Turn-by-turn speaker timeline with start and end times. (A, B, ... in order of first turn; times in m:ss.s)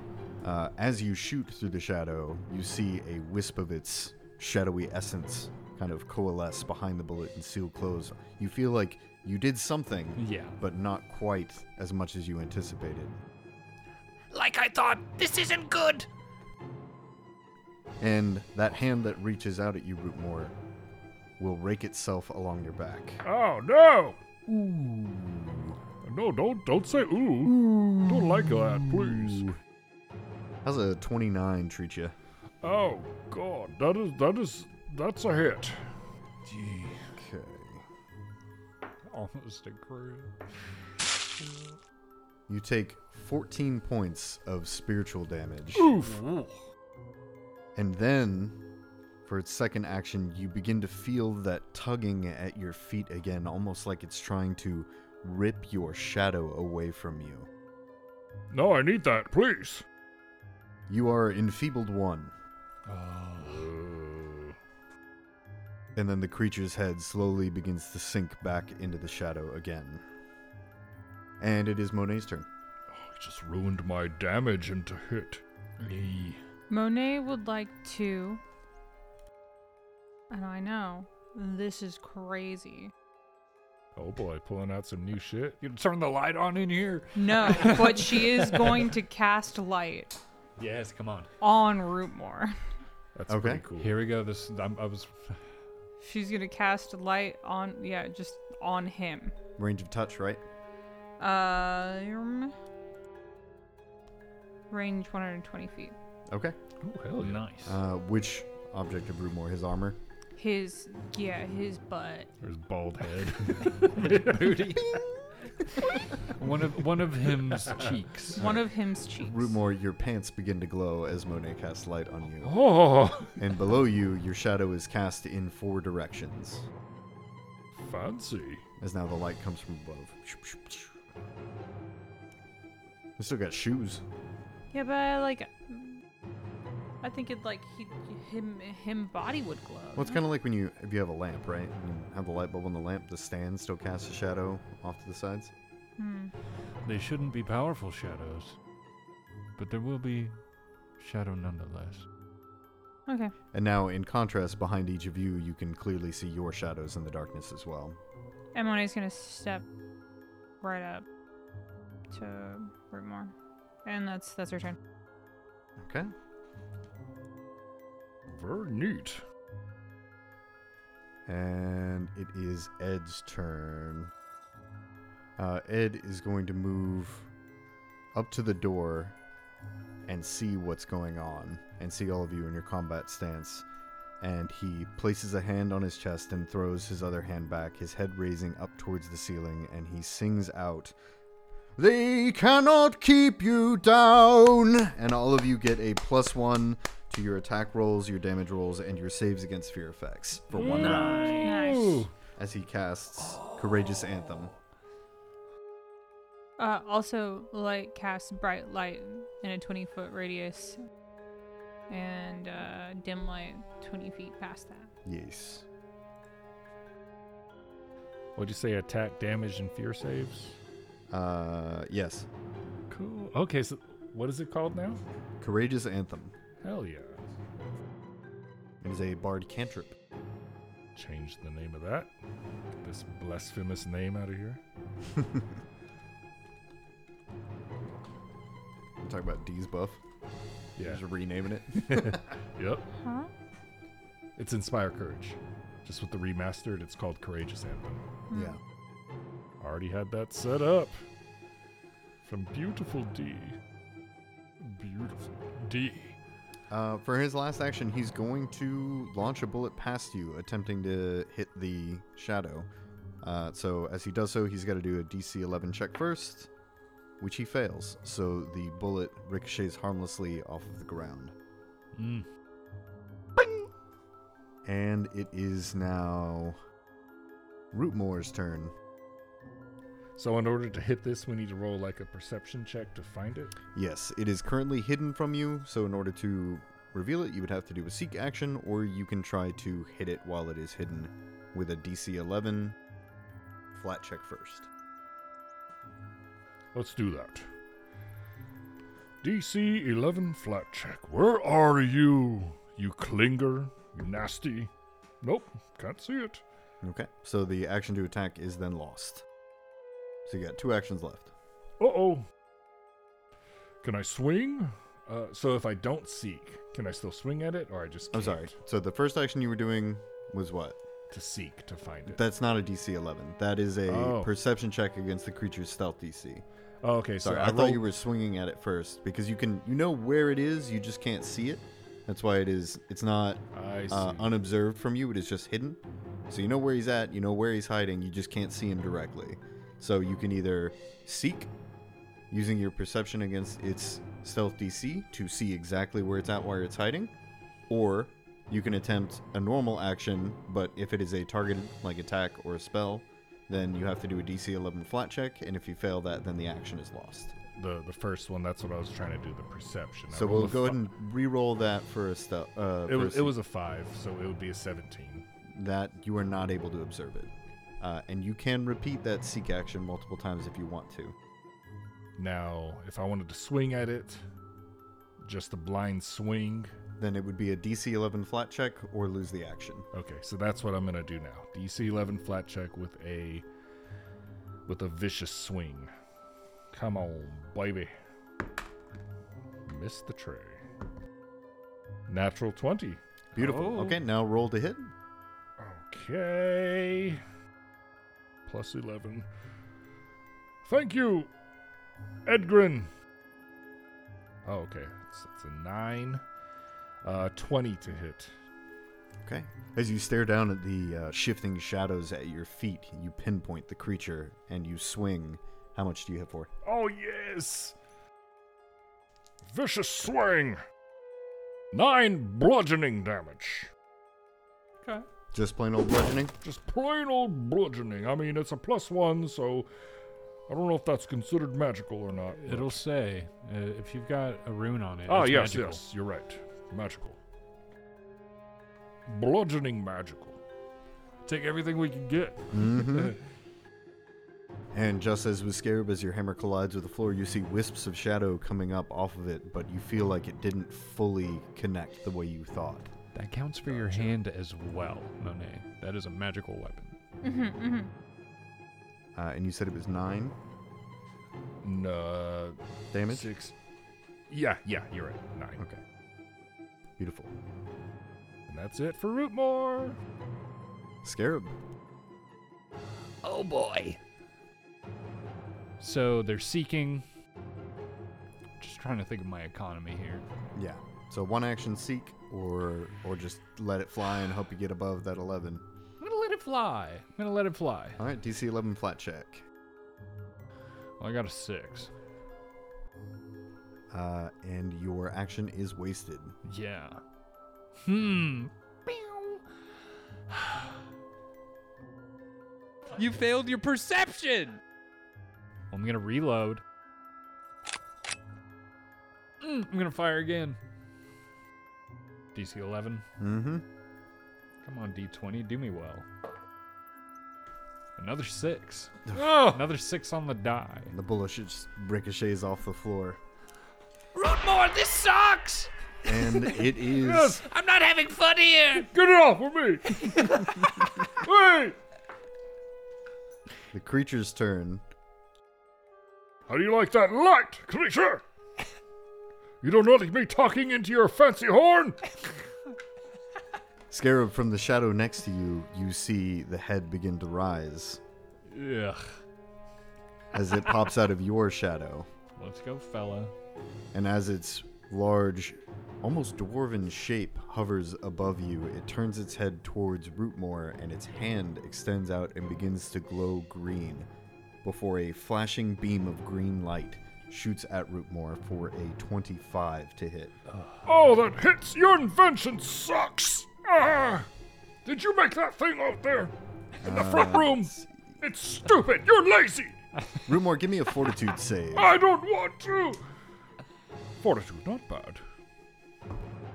0:00.4-0:13.2 A
0:10.2-0:10.6 B
0:14.3-0:16.1 C
0:18.0-0:20.5 A
0:21.4-0:23.2 A
0:23.2-0:24.8 D
0:24.5-0:25.7 A
0:26.0-0:29.5 D
0:27.4-0:29.6 A
0:30.6-0:32.2 A
0:32.6-0:35.8 D
0:36.4-0:37.0 D
0:37.1-0:37.8 A
0:39.0-0:40.3 B
0:42.5-0:46.0 A
0:45.7-0:46.5 D
0:47.7-0:48.6 A
0:49.2-0:57.5 A
0:58.5-0:59.8 D
1:00.9-1:02.3 A
1:02.9-1:03.6 B
1:03.3-1:04.6 D
1:05.9-1:10.0 A
1:11.4-1:12.5 A
1:12.9-1:15.4 D
1:15.8-1:16.4 B
1:16.7-1:18.4 E
1:20.3-1:22.9 E
1:24.0-1:25.6 D
1:25.6-1:28.9 B
1:27.1-1:30.2 E
1:30.6-1:31.3 B
1:31.4-1:32.5 E
1:33.1-1:33.9 D
1:33.3-1:33.6 A
1:33.8-1:35.4 B
1:36.0-1:39.3 E
1:39.6-1:40.4 A
1:41.2-1:42.5 E
1:44.7-1:46.0 E
1:46.3-1:46.6 A
1:46.8-1:47.5 D
1:47.2-1:47.8 B
1:47.6-1:50.0 A
1:50.4-1:52.3 E
1:52.4-1:54.5 D
1:53.4-1:55.0 B
1:55.9-1:58.4 B
1:57.2-1:57.9 D
1:58.3-1:59.5 E
1:58.4-2:02.6 A
2:02.4-2:03.4 D
2:03.4-2:06.7 A
2:07.8-2:08.6 D
2:08.8-2:10.9 A
2:13.2-2:14.0 A
2:14.7-2:16.0 E
2:17.0-2:20.2 E
2:20.0-2:25.5 A
2:26.0-2:26.3 E
2:26.8-2:28.6 B
2:29.6-2:30.4 B
2:31.0-2:32.0 B
2:33.1-2:33.3 E
2:33.5-2:38.0 A
2:38.5-2:39.6 E
2:40.6-2:41.0 E
2:42.1-2:43.3 E
2:43.8-2:44.8 E
2:45.8-2:46.1 A
2:48.3-2:49.2 D
2:51.2-2:54.1 A
2:55.4-2:57.3 A
2:58.1-2:59.1 A
3:00.0-3:03.6 A
3:04.2-3:10.9 A
3:11.8-3:21.3 A
3:20.5-3:22.1 D
3:20.6-3:21.7 C
3:21.4-3:22.1 E
3:22.4-3:24.5 A
3:26.6-3:30.8 E
3:31.9-3:34.9 E
3:35.0-3:35.6 A
3:38.4-3:40.6 D
3:41.1-3:42.3 A
3:42.9-3:45.0 D
3:45.4-3:46.3 A
3:46.6-3:47.2 D
3:48.8-3:50.0 A
3:50.9-3:52.1 D
3:52.8-3:54.6 D
3:55.1-3:55.4 A
3:59.0-4:00.0 A
4:00.8-4:01.0 D
4:00.8-4:02.2 A
4:01.7-4:02.8 D
4:03.0-4:03.3 E
4:04.4-4:08.0 D
4:08.3-4:08.6 E
4:08.3-4:08.6 A
4:09.6-4:11.0 D
4:12.2-4:13.6 D
4:14.6-4:16.2 D
4:16.7-4:22.7 A
4:23.2-4:26.5 A
4:27.2-4:31.3 A
4:32.0-4:32.2 B
4:33.4-4:33.6 C
4:34.6-4:36.6 A
4:37.7-4:38.7 A
4:40.2-4:43.5 D
4:43.7-4:52.8 A
4:53.7-4:54.7 A
4:56.7-4:57.5 D
4:59.2-5:04.7 D
5:05.2-5:06.4 D
5:06.8-5:09.2 A
5:10.2-5:11.3 A
5:11.8-5:12.2 D
5:13.8-5:18.5 D
5:18.1-5:20.8 A
5:21.1-5:22.2 D
5:22.0-5:26.4 A
5:23.9-5:24.3 D
5:26.8-5:27.8 D
5:27.2-5:41.5 A
5:33.5-5:34.3 D
5:42.3-5:47.1 A
5:47.7-5:57.3 A
5:57.5-6:00.8 D
6:00.1-6:03.3 A
6:02.9-6:05.2 D
6:05.5-6:11.2 A
6:12.2-6:14.2 D
6:15.2-6:16.7 D
6:17.0-6:19.9 A
6:19.9-6:23.4 D
6:24.6-6:25.9 D
6:26.7-6:27.9 D
6:29.6-6:30.6 D
6:32.1-6:33.0 D
6:33.3-6:34.0 B
6:33.3-6:34.9 A
6:35.6-6:37.2 D
6:38.4-6:39.3 D
6:40.6-6:41.3 D
6:42.2-6:42.9 D
6:44.4-6:46.2 D
6:47.0-6:48.3 D
6:49.2-6:56.5 A
6:56.6-6:57.7 D
6:59.4-7:00.6 D
7:01.7-7:03.7 D
7:05.3-7:06.3 A
7:06.4-7:09.7 D
7:10.5-7:12.8 D
7:12.4-7:15.8 B
7:15.1-7:17.2 D
7:19.0-7:20.4 D
7:21.2-7:23.1 D
7:22.5-7:23.2 A
7:24.7-7:32.9 A
7:33.1-7:37.0 B
7:33.6-7:34.2 D
7:37.2-7:37.9 E
7:39.2-7:40.4 A
7:41.6-7:43.5 D
7:42.9-7:43.3 A
7:44.3-7:45.6 D
7:47.0-7:47.3 A
7:48.5-7:50.0 D
7:51.0-7:51.5 A
7:53.2-7:54.0 C
7:55.8-7:57.0 B
7:58.6-8:00.2 B
8:00.5-8:05.6 A
8:06.0-8:08.0 B
8:08.0-8:09.4 A
8:11.0-8:11.9 B
8:13.9-8:16.3 A
8:16.4-8:17.0 B
8:17.8-8:19.4 B
8:20.3-8:20.7 B
8:22.9-8:24.6 B
8:25.7-8:26.6 B
8:29.4-8:30.6 B
8:32.3-8:33.0 B
8:33.2-8:33.6 A
8:34.6-8:36.0 B
8:38.0-8:40.9 B
8:39.1-8:39.6 D
8:40.9-8:43.2 A
8:44.1-8:45.7 C
8:46.0-8:47.4 A
8:46.9-8:47.4 D
8:47.4-8:48.9 C
8:48.7-8:51.8 D
8:50.1-8:50.4 C
8:53.7-8:54.8 A
8:56.5-8:58.2 D
8:59.6-9:02.0 D
9:03.9-9:08.0 A
9:08.5-9:09.2 B
9:10.3-9:12.1 A
9:12.4-9:13.3 B
9:13.9-9:24.1 A
9:24.6-9:30.3 A
9:30.8-9:34.3 D
9:34.8-9:39.8 D
9:36.8-9:37.9 A
9:40.2-9:41.9 A
9:41.7-9:43.0 D
9:44.2-9:45.2 D